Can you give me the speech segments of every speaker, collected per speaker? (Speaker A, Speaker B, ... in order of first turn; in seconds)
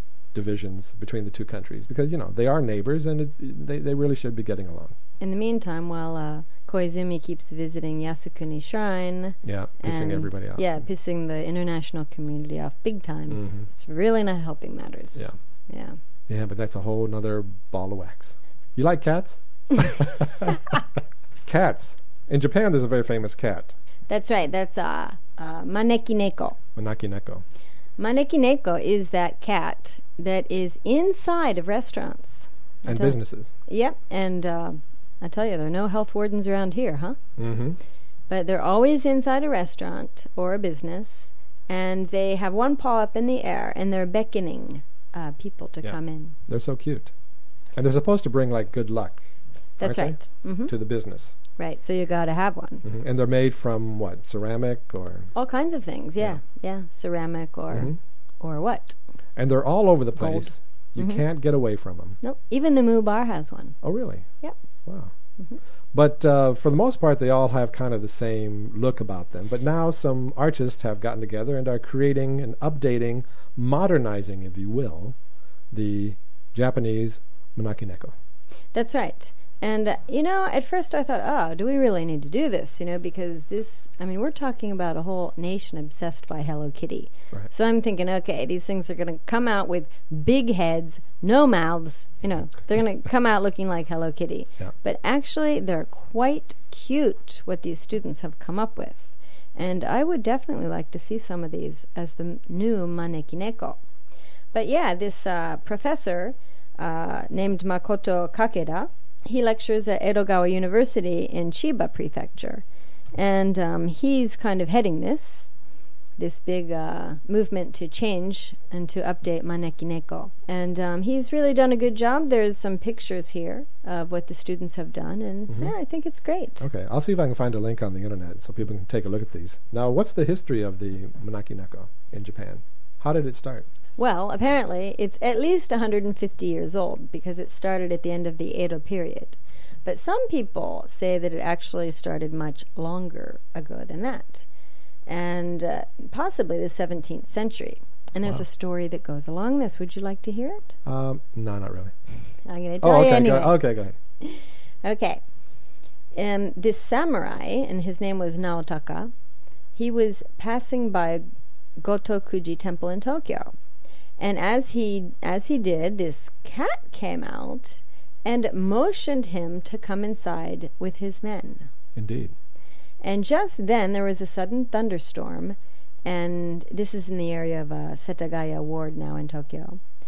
Speaker A: 0.3-5.0, 9.4-10.8, 13.3-13.7, 16.3-20.6, 21.5-23.7, 26.8-27.4, 32.9-33.5, 37.4-37.8, 45.8-47.1, 47.8-49.2, 49.8-51.4, 52.8-55.3, 57.7-58.0, 59.4-62.2, 63.8-64.3, 64.9-65.1, 65.9-75.2, 75.7-78.2, 125.5-125.7, 126.6-133.7, 150.8-151.9, 152.8-153.9, 172.0-172.3
Speaker B: 5.2-16.0, 24.1-26.6, 28.0-37.2, 38.3-46.4, 49.8-50.7, 51.6-52.9, 55.4-59.0, 60.2-61.2, 62.2-63.8, 78.7-103.8, 104.5-115.5, 116.2-126.7, 134.0-144.5, 145.1-150.8, 152.5-153.6, 154.2-155.2, 156.1-159.1, 159.8-161.2, 161.8-163.5, 164.2-171.7, 173.0-179.8